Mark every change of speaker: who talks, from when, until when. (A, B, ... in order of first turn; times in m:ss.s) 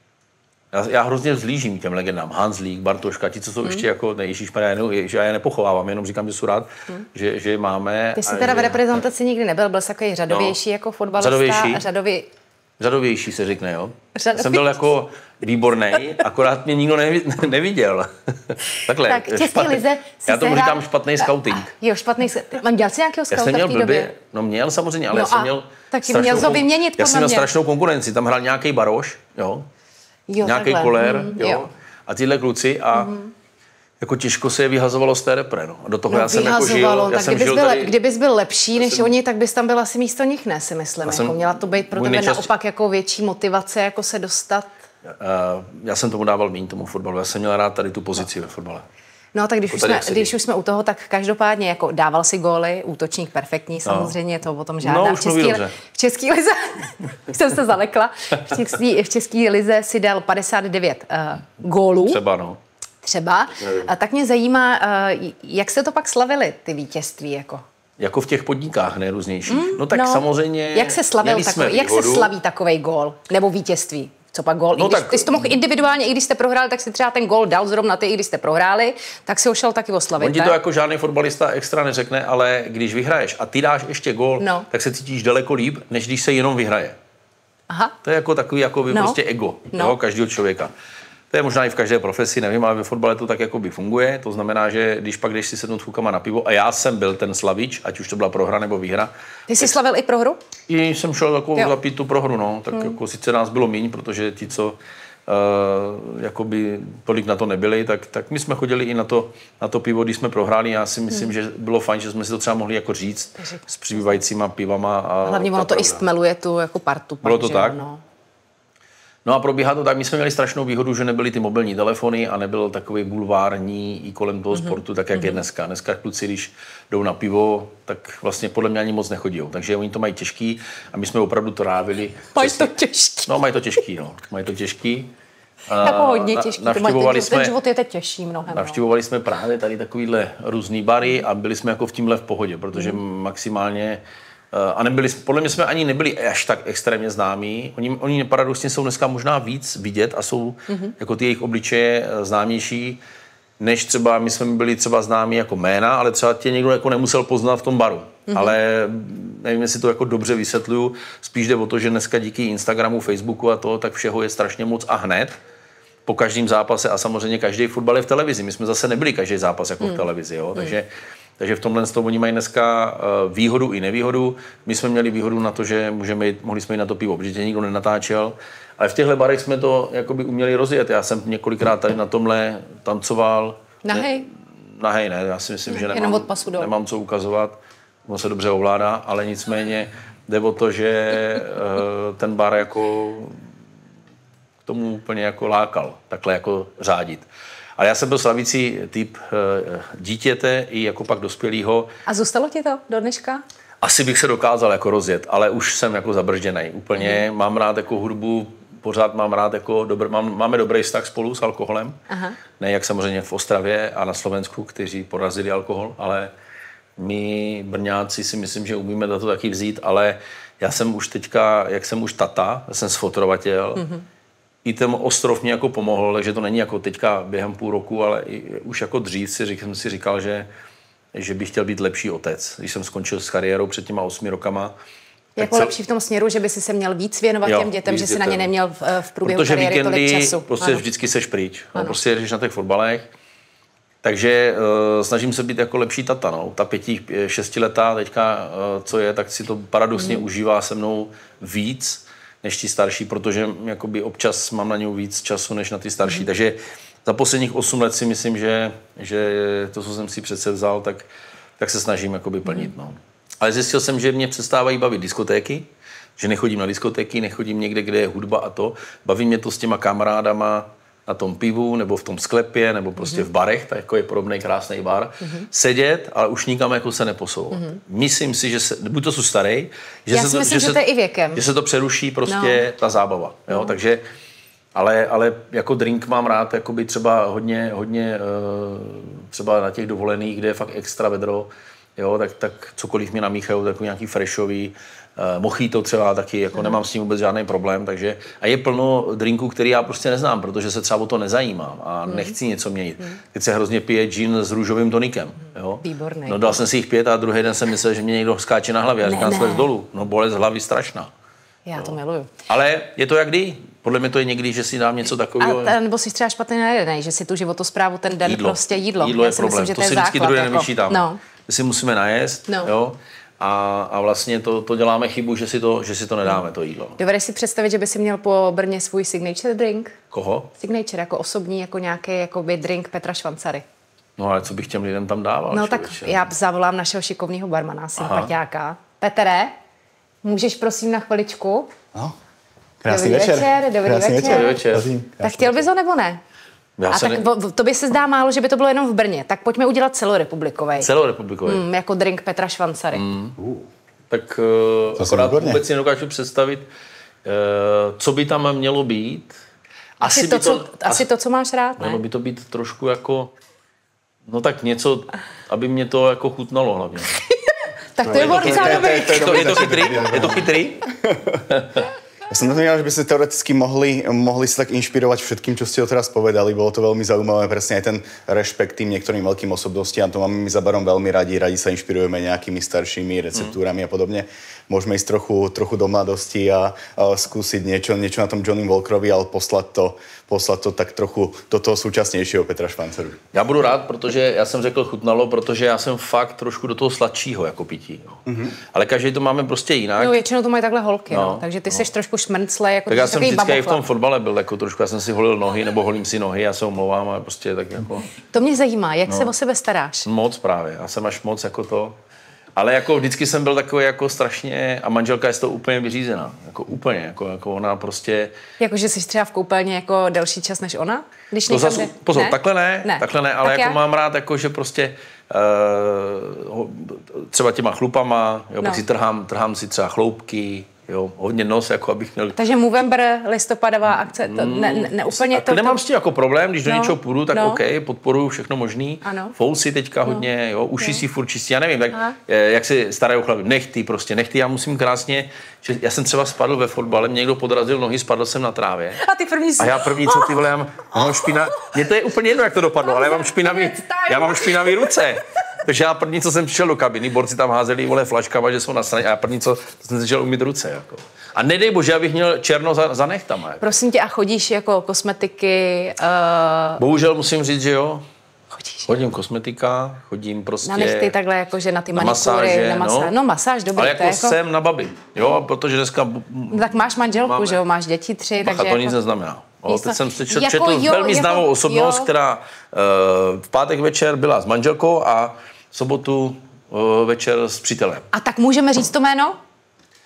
0:00.7-0:08.8 A
0:08.2-0:12.3 B
0:10.3-0:10.6 A
0:11.2-0:11.8 A
0:12.8-0:21.7 A
0:14.2-0:14.8 B
0:19.0-0:24.1 B
0:23.3-0:29.7 A
0:25.1-0:27.5 B
0:30.3-0:31.7 B
0:30.4-0:33.2 A
0:32.9-0:33.3 B
0:34.0-0:38.0 A
0:36.1-0:44.7 B
0:38.8-0:39.1 A
0:41.0-0:42.5 A
0:45.1-0:48.8 A
0:49.4-1:02.2 B
0:49.7-0:50.3 A
0:53.9-0:54.2 A
0:54.8-0:55.7 A
1:02.0-1:02.6 A
1:03.0-1:07.6 B
1:08.0-1:12.3 A
1:09.5-1:20.6 B
1:14.7-1:15.4 A
1:20.2-1:27.0 A
1:24.4-1:24.7 B
1:28.0-1:30.7 A
1:28.9-1:29.2 B
1:31.3-1:39.7 A
1:39.5-1:40.4 B
1:40.7-1:56.0 A
1:55.2-1:58.0 B
1:57.2-1:57.8 A
1:59.2-2:12.7 A
2:04.5-2:05.4 B
2:12.4-2:13.4 B
2:13.3-2:15.1 A
2:15.7-2:17.5 A
2:15.8-2:18.8 B
2:18.5-2:24.0 A
2:24.5-2:33.0 A
2:33.6-2:45.4 A
2:38.3-2:38.6 B
2:46.1-2:50.9 A
2:51.4-3:04.2 A
3:03.8-3:04.3 B
3:04.8-3:13.4 A
3:05.7-3:06.7 B
3:14.6-3:17.3 A
3:17.8-3:21.9 A
3:22.1-3:23.4 B
3:23.8-3:32.0 A
3:27.0-3:27.2 B
3:32.1-3:32.4 B
3:32.6-3:36.3 A
3:37.0-3:43.9 A
3:44.6-3:50.5 A
3:51.1-3:54.7 A
3:55.4-4:00.8 B
3:55.4-3:55.7 A
3:57.4-3:58.5 A
3:59.2-4:03.1 A
4:04.0-4:21.1 A
4:21.6-4:40.8 A
4:33.0-4:33.3 B
4:37.5-4:37.8 B
4:40.1-4:41.4 B
4:41.3-4:44.0 A
4:42.3-4:42.6 B
4:43.5-4:43.7 B
4:44.8-5:11.1 A
5:02.1-5:02.4 B
5:05.8-5:06.6 B
5:09.0-5:09.7 B
5:11.7-5:12.3 B
5:12.5-5:15.8 A
5:15.4-5:21.2 B
5:18.2-5:27.0 A
5:27.0-5:30.0 B
5:30.1-5:30.5 A
5:30.6-5:33.6 B
5:34.2-5:36.2 A
5:35.5-5:39.6 B
5:38.0-5:38.3 A
5:40.2-5:41.7 B
5:42.8-5:45.6 C
5:42.9-5:44.6 B
5:44.2-5:44.9 A
5:45.2-5:46.2 B
5:46.8-5:47.2 A
5:46.9-5:50.9 B
5:50.8-5:51.6 A
5:51.5-5:53.0 B
5:52.9-5:53.4 A
5:53.4-5:53.6 C
5:54.1-5:56.7 A
5:55.0-5:55.6 C
5:57.2-5:59.3 A
6:00.0-6:01.0 A
6:00.0-6:02.0 B
6:01.8-6:03.3 A
6:04.3-6:07.1 A
6:08.0-6:09.6 B
6:08.0-6:11.4 C
6:08.1-6:10.9 A
6:11.5-6:11.8 A
6:12.3-6:33.2 C
6:33.3-6:38.2 A
6:38.3-6:38.5 C
6:38.7-6:40.2 A
6:40.0-6:43.8 B
6:41.1-6:41.9 A
6:42.9-6:48.1 A
6:48.2-6:50.1 B
6:50.0-6:52.0 A
6:52.6-6:58.3 A
6:58.6-7:03.8 B
7:01.5-7:12.4 A
7:12.4-7:15.8 B
7:14.2-7:29.0 A
7:16.7-7:17.6 B
7:19.0-7:19.3 B
7:29.0-7:30.4 B
7:29.6-7:43.6 A
7:32.8-7:34.9 B
7:43.6-7:46.8 B
7:46.8-7:48.0 A
7:48.5-7:49.0 B
7:48.9-7:51.1 A
7:50.6-7:54.4 B
7:52.0-7:53.1 A
7:53.8-7:57.6 A
7:56.5-7:59.0 B
7:58.4-8:08.1 A
7:59.7-8:02.1 B
8:08.1-8:09.4 B